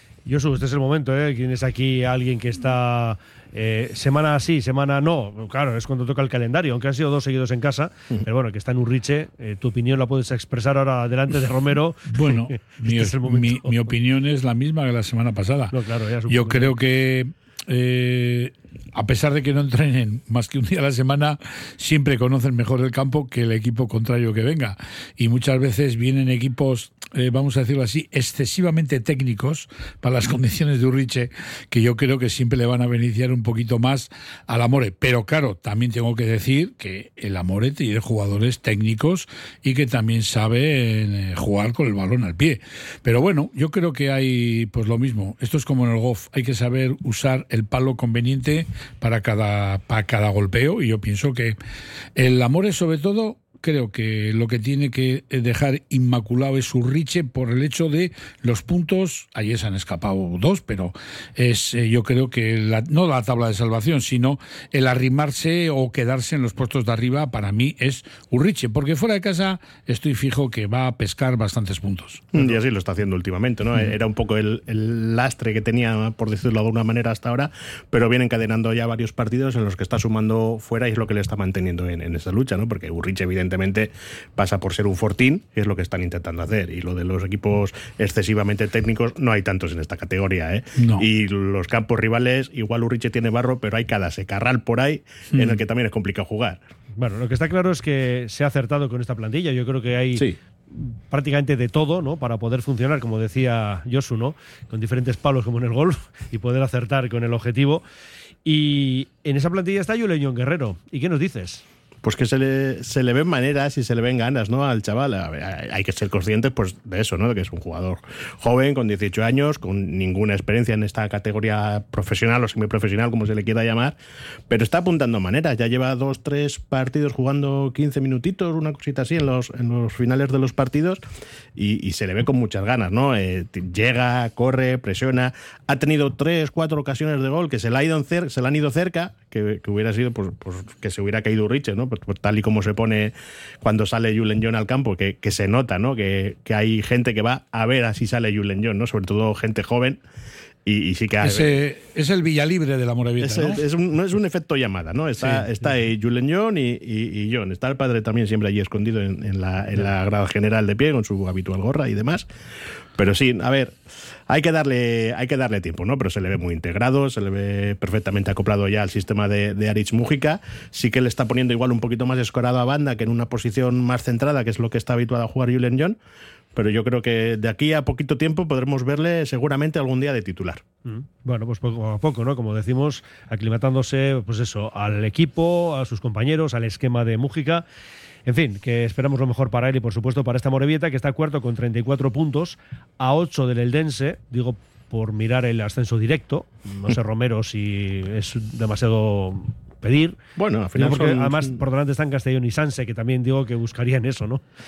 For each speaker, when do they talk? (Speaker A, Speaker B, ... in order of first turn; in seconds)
Speaker A: 0.2-13.9, 15.7-16.7, 97.0-107.8, 108.4-111.6, 180.8-187.6, 188.2-200.2, 200.8-204.4
Speaker B: 12.1-15.7, 16.3-51.5, 52.1-72.4, 90.8-91.0, 95.3-95.6, 151.2-153.6, 155.2-155.5
Speaker C: 72.3-96.6, 112.0-124.0, 124.5-131.0, 131.5-150.0, 150.6-151.6, 153.2-162.3, 162.9-163.8, 164.3-176.0, 176.5-180.6, 200.4-201.6